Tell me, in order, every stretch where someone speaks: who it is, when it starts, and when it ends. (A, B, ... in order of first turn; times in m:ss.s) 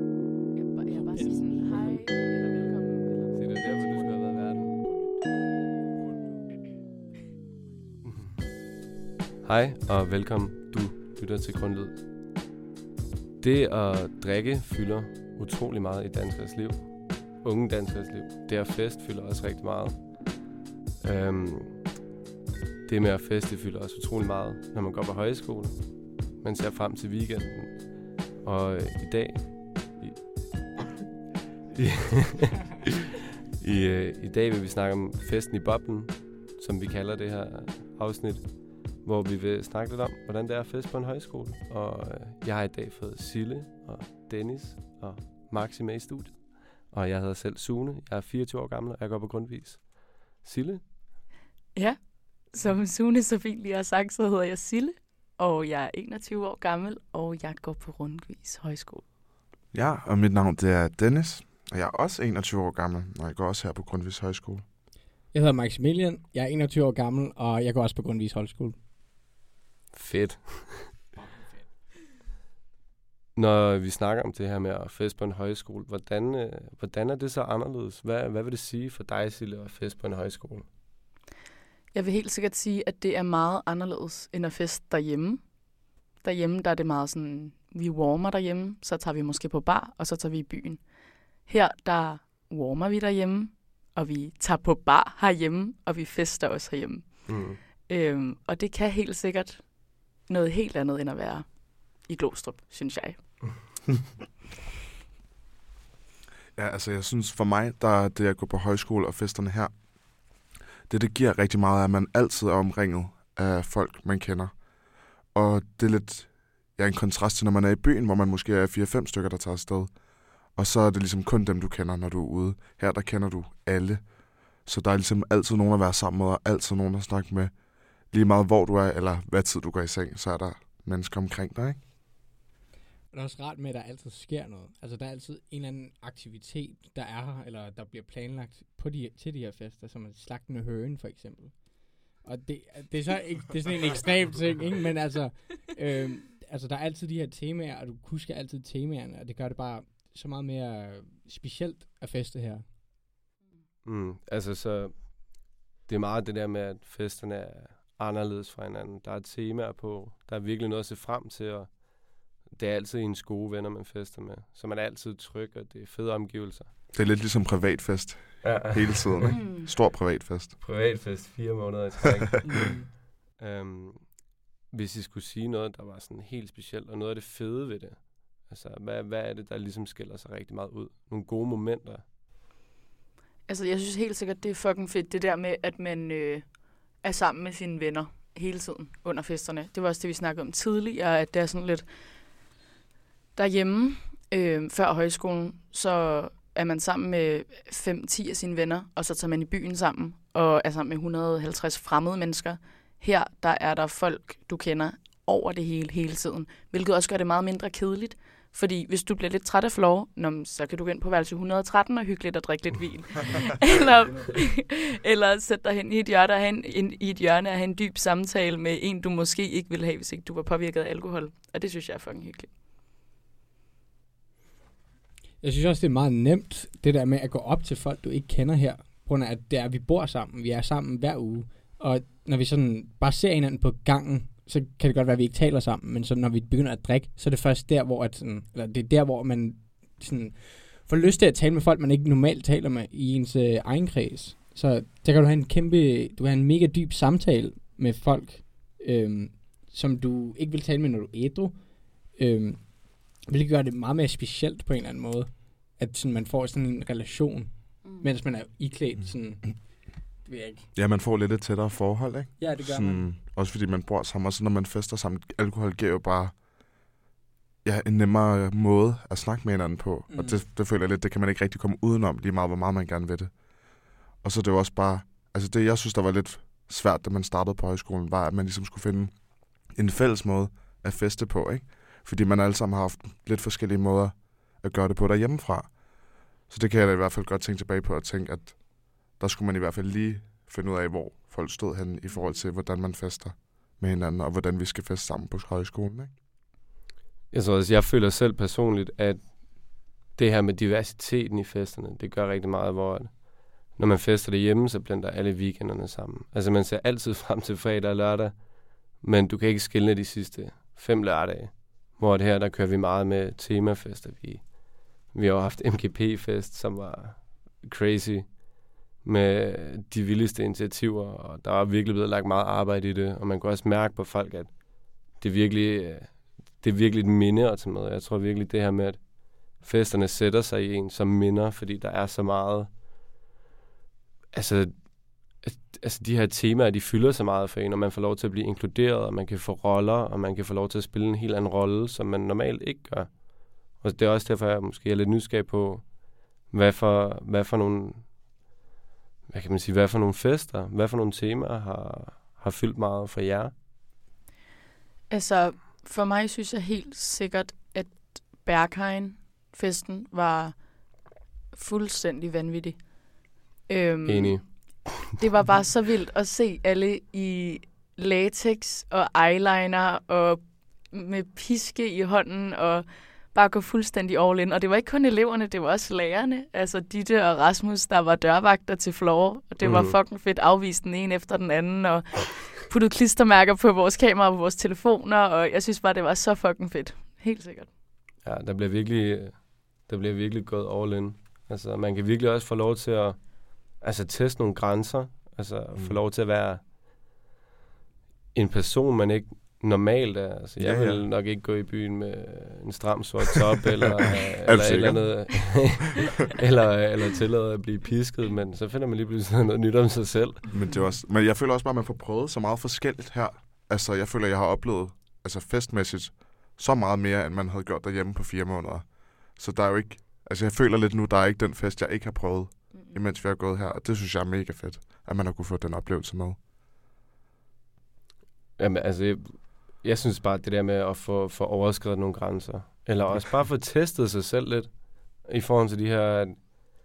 0:00.5-0:05.4 A
0:01.1-0:01.4 B
0:03.3-0:04.8 C
0:09.4-0:12.0 C
0:13.4-0:20.4 C
0:21.0-0:21.9 C
0:22.8-0:30.3 C
0:31.7-0:32.7 C
0:33.6-0:50.8 C
0:51.7-0:59.0 A
0:59.7-1:04.6 D
1:05.3-1:08.8 B
1:09.9-1:11.0 C
1:13.4-1:20.7 C
1:21.9-1:25.6 A
1:26.2-1:43.6 A
1:37.3-1:37.6 C
1:46.6-1:49.8 D
1:50.9-1:54.6 D
1:55.3-2:04.0 D
2:04.6-2:07.5 D
2:08.1-2:11.8 D
2:13.1-2:32.7 B
2:33.8-2:46.7 C
2:46.9-2:50.6 D
2:48.4-2:49.4 C
2:49.3-2:49.7 A
2:50.6-2:52.5 C
2:52.4-2:52.9 B
2:53.4-3:02.0 C
3:03.5-3:11.9 A
3:13.4-3:42.5 A
3:45.4-4:20.7 B
4:17.8-4:18.1 A
4:20.7-4:26.4 D
4:22.4-4:23.1 B
4:27.6-4:33.3 D
4:30.1-4:30.4 B
4:34.2-4:45.9 D
4:46.4-4:56.1 D
4:57.3-5:32.8 C
5:34.3-5:48.1 C
5:49.3-5:53.6 C
5:55.1-6:02.9 A
6:03.7-6:27.7 A
6:04.0-6:05.2 C
6:19.6-6:20.0 C
6:28.2-6:36.7 C
6:38.3-6:50.5 C
6:40.6-6:41.0 D
6:44.4-6:45.8 D
6:50.5-7:06.4 D
7:02.7-7:03.0 A
7:08.6-7:16.6 C